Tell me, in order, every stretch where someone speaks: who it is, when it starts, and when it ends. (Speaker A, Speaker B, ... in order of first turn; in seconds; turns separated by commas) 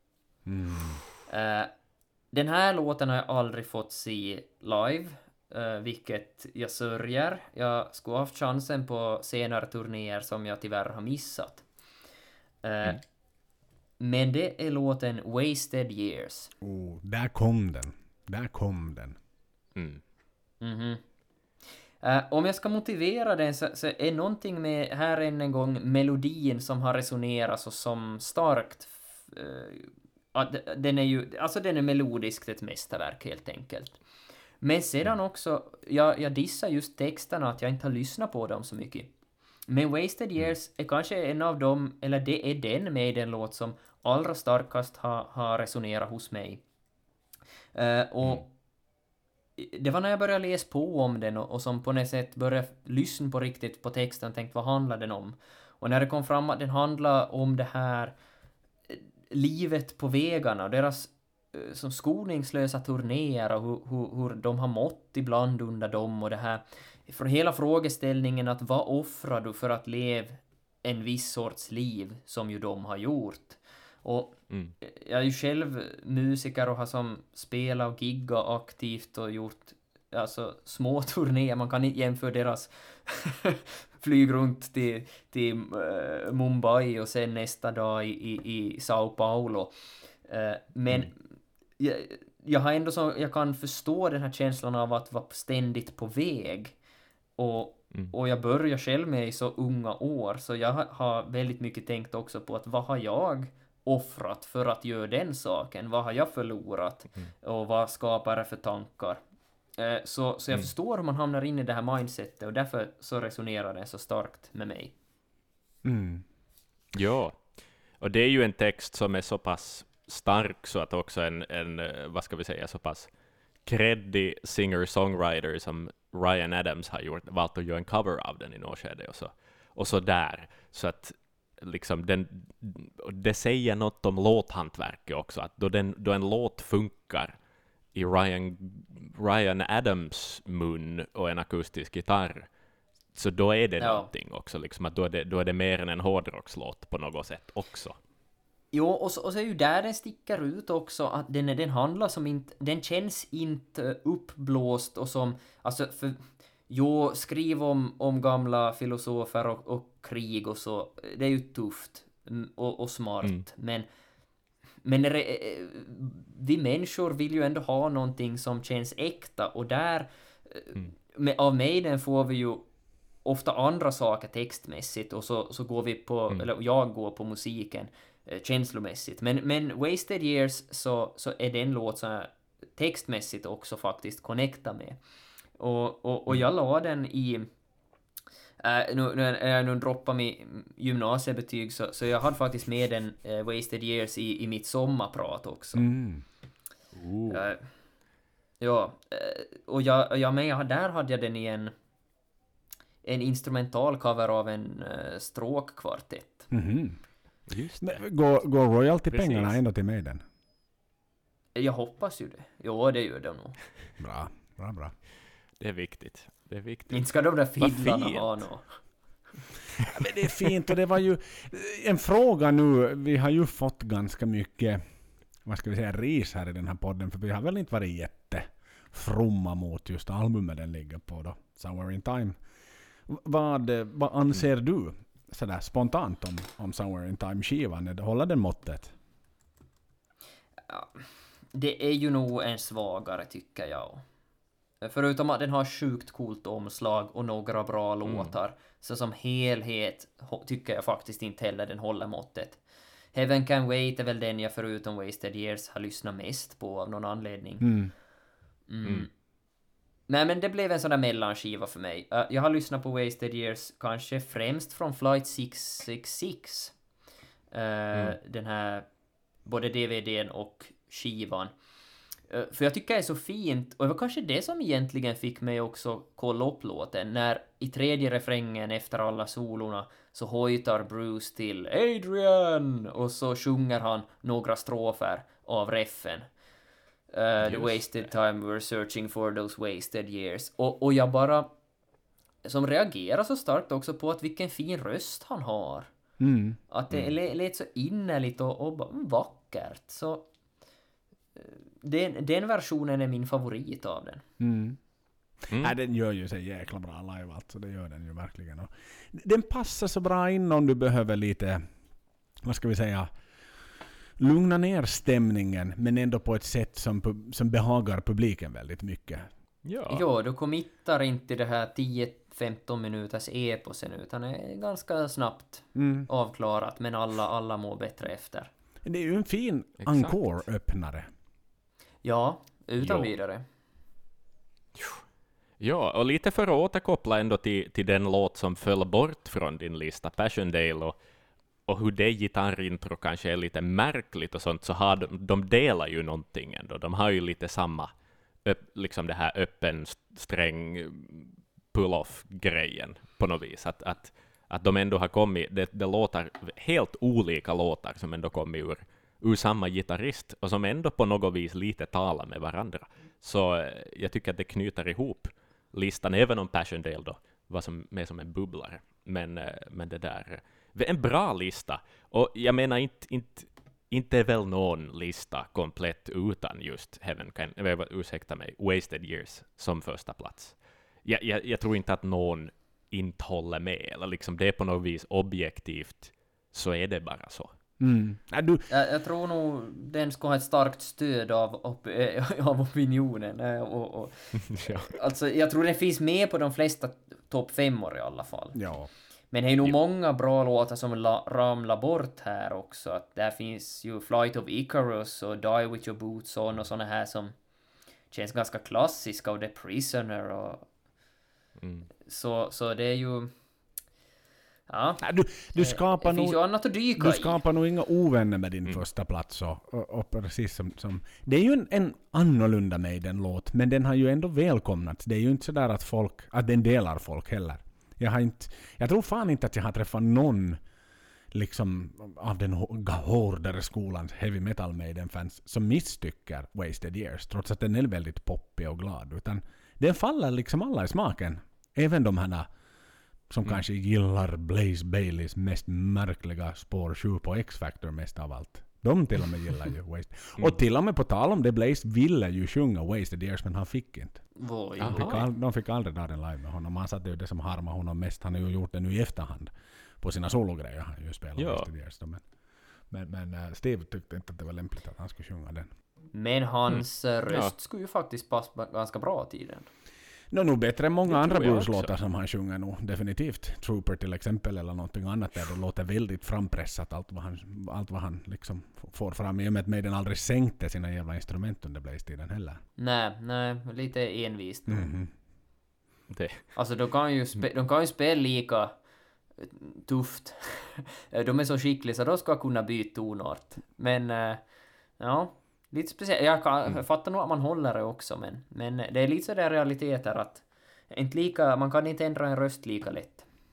Speaker A: 0.5-1.0, Speaker B: 1.3-1.7, Speaker B: 2.3-11.6, Speaker B: 12.6-13.0, Speaker B: 14.0-16.5, Speaker A: 16.6-19.2, Speaker C: 19.7-20.0, Speaker B: 20.6-21.0, Speaker B: 22.0-34.0, Speaker B: 34.6-39.1, Speaker B: 39.7-46.6, Speaker B: 47.7-48.5, Speaker B: 49.6-58.1, Speaker B: 58.9-91.3, Speaker B: 91.8-96.8, Speaker B: 97.4-109.2, Speaker B: 109.8-114.9, Speaker A: 115.8-116.2, Speaker C: 116.9-117.5, Speaker C: 118.0-123.1, Speaker C: 123.7-137.3, Speaker C: 137.9-142.5, Speaker C: 143.1-148.0, Speaker B: 143.8-144.1, Speaker B: 148.7-163.8, Speaker B: 164.8-172.7, Speaker B: 173.2-185.0, Speaker B: 185.6-187.5, Speaker B: 188.6-195.9, Speaker A: 195.7-196.2, Speaker C: 196.9-197.4, Speaker B: 197.3-197.6, Speaker B: 198.6-201.7, Speaker B: 203.0-206.5, Speaker A: 206.5-207.0, Speaker C: 207.5-208.0, Speaker A: 207.8-210.2, Speaker C: 209.1-209.6, Speaker B: 211.5-213.6, Speaker A: 214.0-214.9, Speaker C: 215.6-217.0, Speaker B: 216.9-218.7, Speaker C: 217.6-218.4, Speaker A: 219.9-224.8, Speaker A: 225.4-232.4, Speaker A: 233.1-238.9, Speaker B: 240.7-244.0, Speaker B: 244.8-252.6, Speaker C: 248.0-248.3, Speaker B: 253.1-257.8, Speaker A: 257.6-257.9, Speaker B: 258.7-259.1, Speaker B: 260.1-266.8, Speaker B: 267.5-268.9, Speaker B: 269.4-271.5, Speaker B: 272.3-286.3, Speaker B: 287.1-291.5, Speaker C: 287.4-288.1, Speaker B: 292.4-295.9, Speaker A: 296.2-296.6, Speaker B: 296.7-300.3, Speaker B: 301.4-304.2, Speaker A: 304.4-304.8, Speaker A: 305.4-311.6, Speaker A: 312.4-313.1, Speaker A: 314.2-319.3, Speaker C: 319.6-320.1, Speaker B: 319.9-328.5, Speaker A: 325.8-326.1, Speaker A: 328.8-331.1, Speaker C: 329.8-330.1, Speaker B: 332.0-333.4, Speaker C: 332.8-333.1, Speaker C: 334.8-335.0, Speaker C: 335.6-340.9, Speaker C: 341.7-347.9, Speaker C: 348.4-387.5, Speaker A: 387.8-388.6, Speaker B: 388.7-398.6, Speaker C: 394.4-394.9, Speaker A: 398.5-398.9, Speaker B: 399.3-407.3, Speaker B: 408.1-410.7, Speaker C: 411.6-411.9, Speaker B: 412.0-413.3, Speaker B: 414.7-417.4, Speaker A: 415.0-416.4, Speaker A: 416.9-430.6, Speaker A: 431.3-442.5, Speaker A: 443.3-454.2, Speaker B: 454.4-455.3, Speaker C: 454.8-455.2, Speaker A: 454.8-462.2, Speaker C: 461.4-461.7, Speaker A: 462.9-465.7, Speaker B: 466.1-469.7, Speaker C: 466.7-467.5, Speaker A: 470.3-482.6, Speaker C: 471.1-471.9, Speaker B: 482.8-484.9, Speaker A: 484.7-485.1, Speaker C: 486.1-486.5, Speaker B: 486.5-488.7, Speaker B: 489.4-494.4, Speaker B: 495.0-503.2